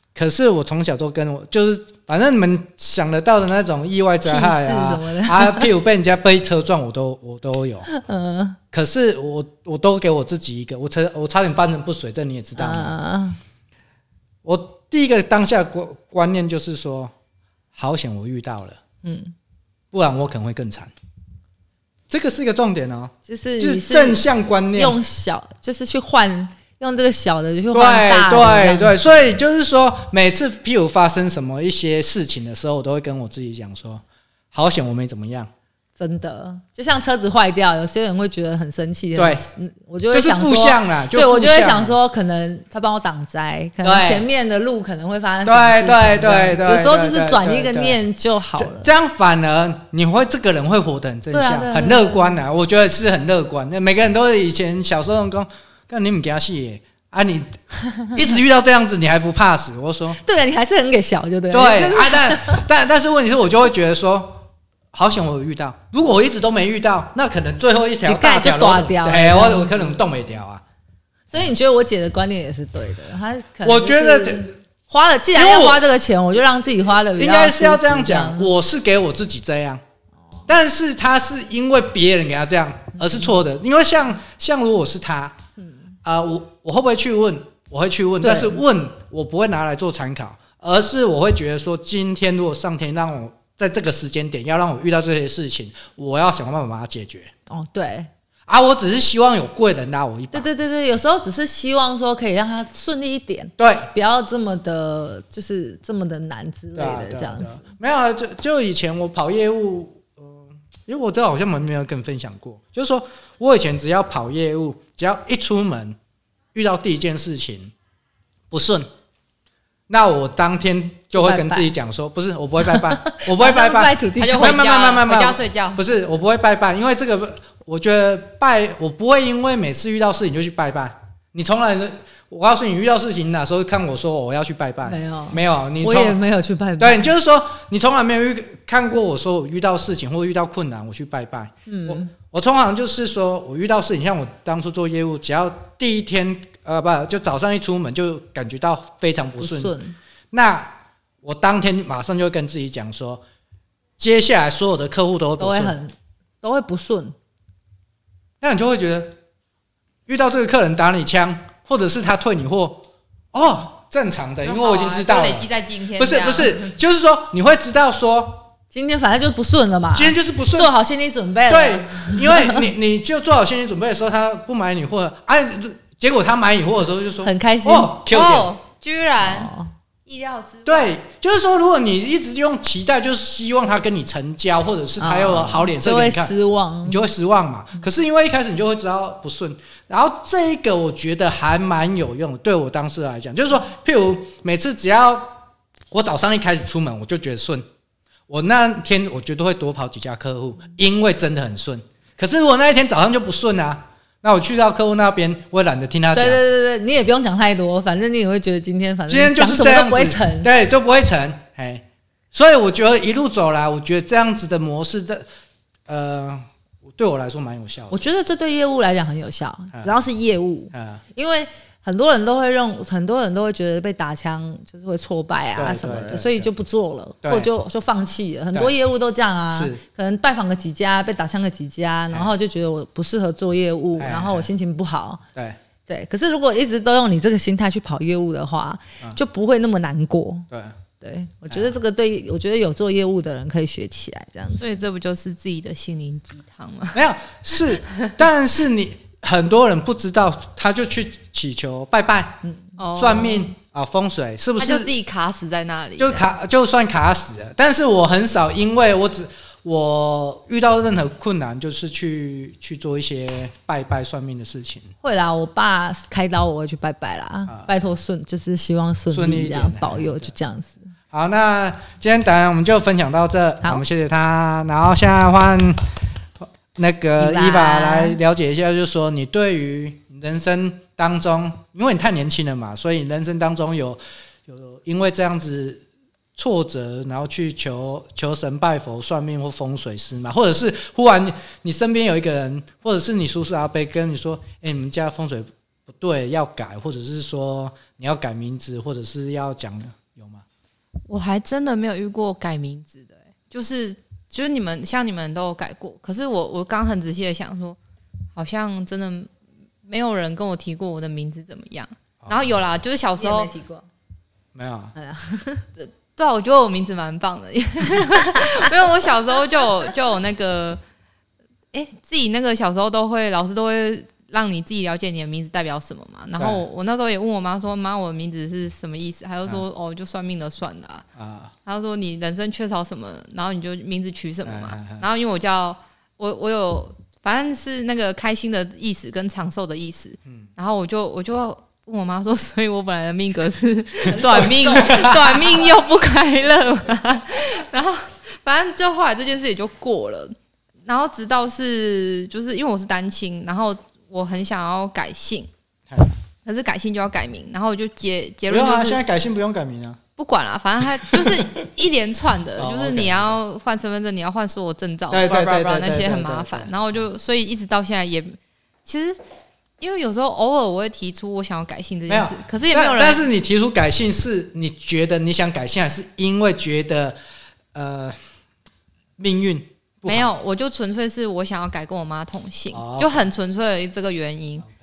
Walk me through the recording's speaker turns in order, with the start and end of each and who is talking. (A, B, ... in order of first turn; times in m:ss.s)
0:00.1-0:07.9 A
0:04.2-0:05.7 B
0:07.9-0:08.6 B
0:08.7-0:12.9 A
0:12.6-0:13.4 B
0:14.4-0:17.1 A
0:17.7-0:18.8 A
0:19.0-0:19.3 B
0:19.9-0:20.9 A
0:22.1-0:25.0 A
0:23.2-0:29.1 B
0:27.7-0:35.5 A
0:36.0-0:48.9 B
0:39.2-0:39.4 A
0:40.1-0:42.0 A
0:43.8-0:44.3 A
0:45.4-0:48.0 A
0:48.6-0:57.6 A
0:51.3-0:52.4 B
0:57.8-0:58.2 B
0:58.1-1:00.2 A
1:00.2-1:02.6 B
1:01.5-1:10.6 A
1:08.0-1:10.0 B
1:11.3-1:18.5 B
1:13.6-1:14.5 A
1:15.3-1:15.8 A
1:17.2-1:19.8 A
1:20.5-1:25.4 A
1:23.0-1:23.3 B
1:26.0-1:37.3 A
1:28.2-1:28.6 B
1:37.5-1:38.1 B
1:38.5-1:40.5 A
1:40.3-1:47.6 B
1:43.6-1:43.9 A
1:46.7-1:56.0 A
1:56.5-1:57.7 A
1:58.5-1:58.9 A
1:59.9-2:16.2 A
2:01.1-2:01.7 B
2:02.6-2:04.6 B
2:04.2-2:05.8 C
2:14.8-2:17.1 B
2:16.8-2:29.8 A
2:21.7-2:22.1 B
2:29.4-2:30.0 B
2:30.3-2:33.2 A
2:34.0-2:35.8 A
2:35.4-2:37.2 B
2:38.4-2:39.2 A
2:40.1-2:48.5 A
2:44.4-2:46.7 C
2:48.7-2:52.7 B
2:49.9-2:50.7 A
2:51.5-2:58.5 A
2:57.2-2:58.0 B
2:58.1-2:59.5 C
2:59.2-2:59.7 B
3:00.0-3:01.0 C
3:00.6-3:06.3 A
3:05.0-3:07.0 B
3:06.8-3:17.6 A
3:18.3-3:26.4 A
3:26.1-3:30.5 B
3:29.1-3:35.2 A
3:35.9-3:38.0 A
3:37.9-3:55.2 B
3:40.7-3:41.0 A
3:45.6-3:46.5 A
3:47.2-3:47.5 A
3:49.5-3:49.8 A
3:54.0-3:54.5 A
3:55.8-4:00.5 B
4:00.5-4:00.8 A
4:01.0-4:04.6 B
4:01.5-4:01.7 A
4:04.6-4:07.0 C
4:06.9-4:12.4 A
4:12.8-4:13.5 C
4:12.9-4:14.9 A
4:14.6-4:16.3 C
4:16.0-4:24.9 A
4:25.0-4:30.9 B
4:29.1-4:30.3 A
4:31.1-4:35.9 A
4:36.7-4:45.8 A
4:37.2-4:38.2 B
4:46.4-5:00.4 A
5:01.1-5:07.8 C
5:08.4-5:09.3 C
5:09.8-5:13.5 C
5:12.2-5:12.6 A
5:13.2-5:13.9 B
5:14.5-5:14.9 A
5:14.9-5:15.6 B
5:15.8-5:20.8 C
5:21.7-5:31.0 C
5:26.4-5:26.6 A
5:31.2-5:31.5 A
5:31.6-5:50.3 C
5:34.4-5:35.0 A
5:44.1-5:45.5 B
5:44.2-5:45.4 A
5:50.8-5:55.5 C
5:55.9-5:56.2 A
5:56.4-5:59.0 C
5:58.5-6:00.0 A
6:00.2-6:09.2 C
6:01.0-6:01.4 A
6:02.6-6:03.4 A
6:05.1-6:06.8 A
6:09.8-6:13.3 C
6:12.1-6:17.2 A
6:17.7-6:18.2 A
6:19.2-6:20.3 A
6:20.0-6:24.6 C
6:22.7-6:23.3 A